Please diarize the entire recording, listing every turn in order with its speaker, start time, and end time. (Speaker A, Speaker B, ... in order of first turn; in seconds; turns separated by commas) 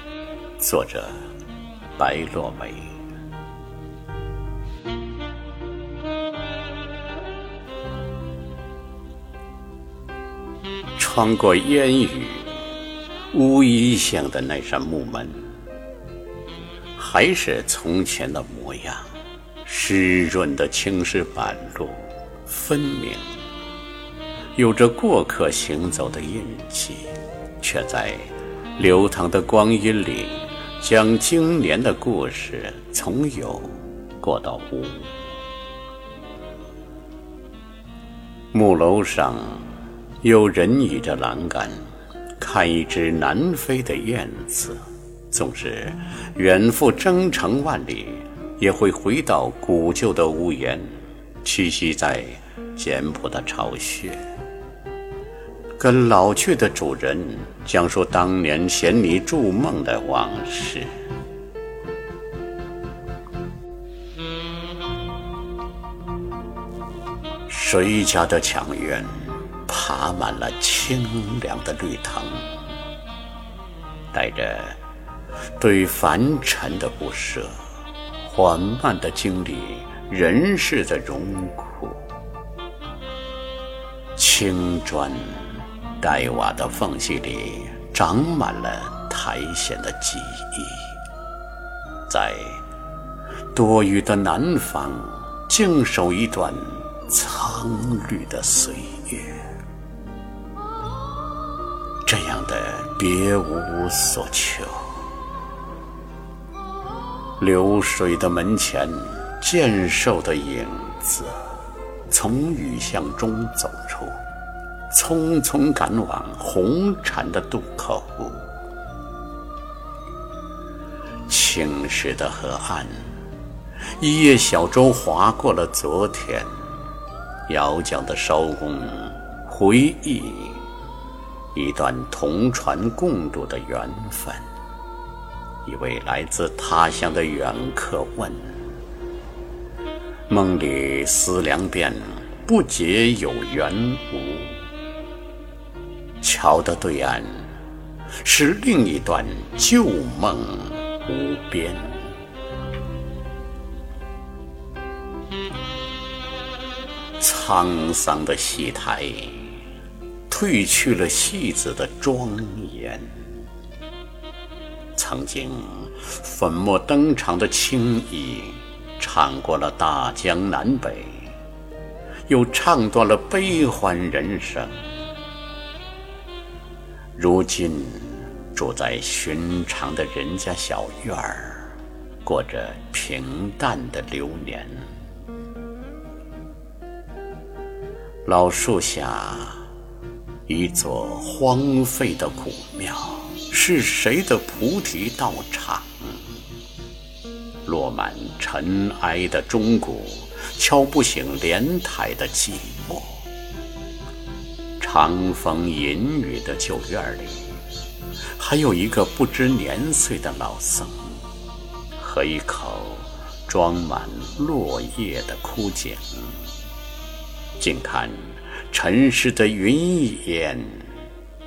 Speaker A: 0.6-1.2, Speaker A: 2.0-3.0, Speaker A: 11.0-12.7, Speaker A: 13.3-15.5, Speaker A: 17.0-19.1, Speaker A: 19.6-23.3, Speaker A: 24.6-35.1, Speaker A: 38.5-54.2, Speaker A: 55.8-60.9, Speaker A: 67.5-72.5, Speaker A: 74.1-74.8, Speaker A: 75.6-77.6, Speaker A: 78.2-82.0, Speaker A: 84.2-91.0, Speaker A: 92.1-92.6, Speaker A: 93.5-99.5, Speaker A: 102.0-105.0, Speaker A: 107.4-111.4, Speaker A: 112.1-114.2, Speaker A: 114.9-118.5, Speaker A: 121.3-123.1, Speaker A: 124.0-126.5, Speaker A: 127.5-130.7, Speaker A: 131.5-134.5, Speaker A: 135.7-138.6, Speaker A: 140.3-144.6, Speaker A: 146.2-147.6, Speaker A: 148.2-152.1, Speaker A: 157.2-159.6, Speaker A: 160.3-163.2, Speaker A: 164.9-171.3, Speaker A: 172.3-174.8, Speaker A: 177.2-184.9, Speaker A: 188.3-189.7, Speaker A: 190.5-196.2, Speaker A: 197.7-203.2, Speaker A: 204.8-207.5, Speaker A: 208.3-211.2, Speaker A: 212.0-216.4, Speaker A: 217.6-221.0